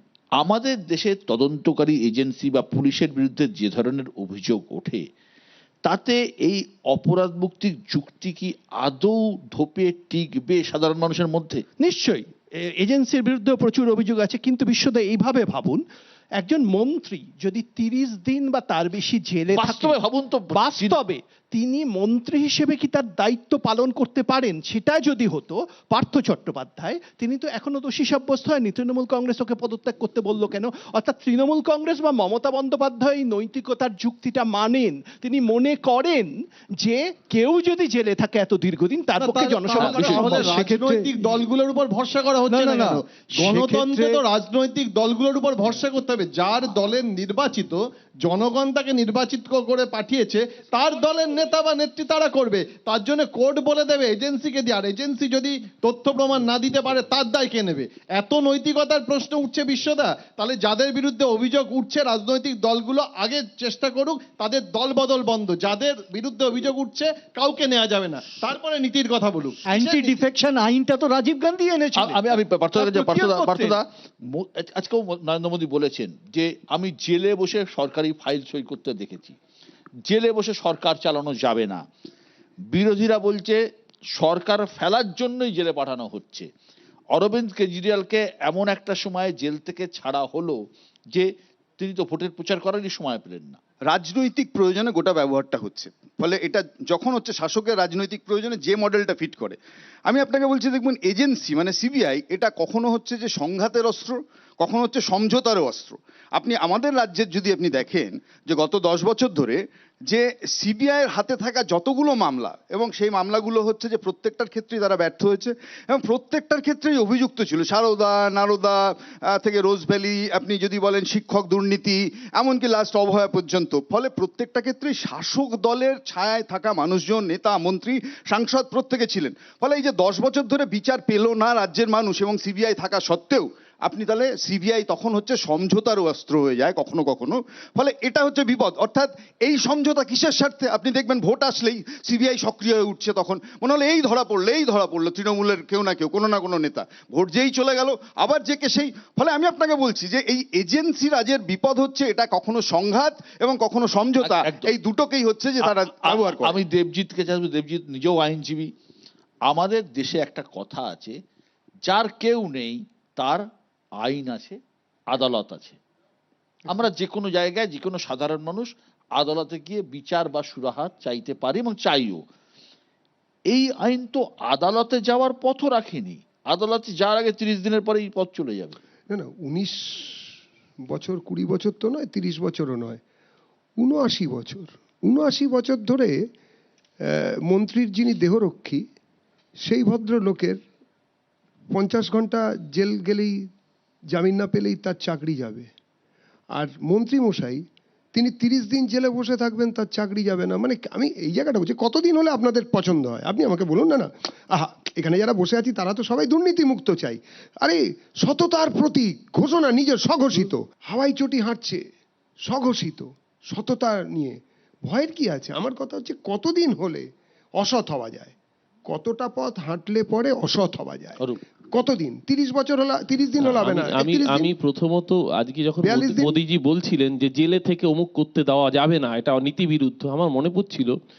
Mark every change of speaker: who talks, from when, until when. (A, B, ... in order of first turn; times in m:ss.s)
0:00.4-0:05.0 A
0:05.8-0:11.6 A
0:11.8-0:15.8 B
0:16.4-0:20.0 B
0:19.5-0:21.0 A
0:20.5-0:40.8 B
0:39.2-1:10.2 C
0:40.2-0:41.0 D
0:42.5-0:44.2 D
1:09.7-1:13.8 D
1:11.9-1:19.4 A
1:20.1-1:21.8 A
1:22.7-1:23.6 A
1:24.2-1:26.5 A
1:27.1-1:30.6 A
1:31.8-1:33.6 A
1:33.9-1:49.6 E
1:50.1-1:58.8 E
1:59.4-2:36.6 E
2:34.2-2:34.7 A
2:35.7-2:38.7 A
2:39.5-2:41.2 A
2:41.9-2:43.4 A
2:44.0-2:44.6 A
2:45.1-2:45.8 A
2:46.7-2:52.2 A
2:53.5-2:58.8 A
2:59.1-3:00.3 F
3:00.9-3:03.0 F
3:03.8-3:06.1 F
3:07.1-3:08.8 F
3:09.6-3:10.6 F
3:11.7-3:13.4 F
3:14.1-3:15.7 F
3:16.5-3:31.8 F
3:32.5-3:37.0 F
3:37.6-3:38.3 F
3:38.9-3:41.2 F
3:41.7-3:44.5 F
3:43.4-3:50.9 G
3:45.8-3:46.4 F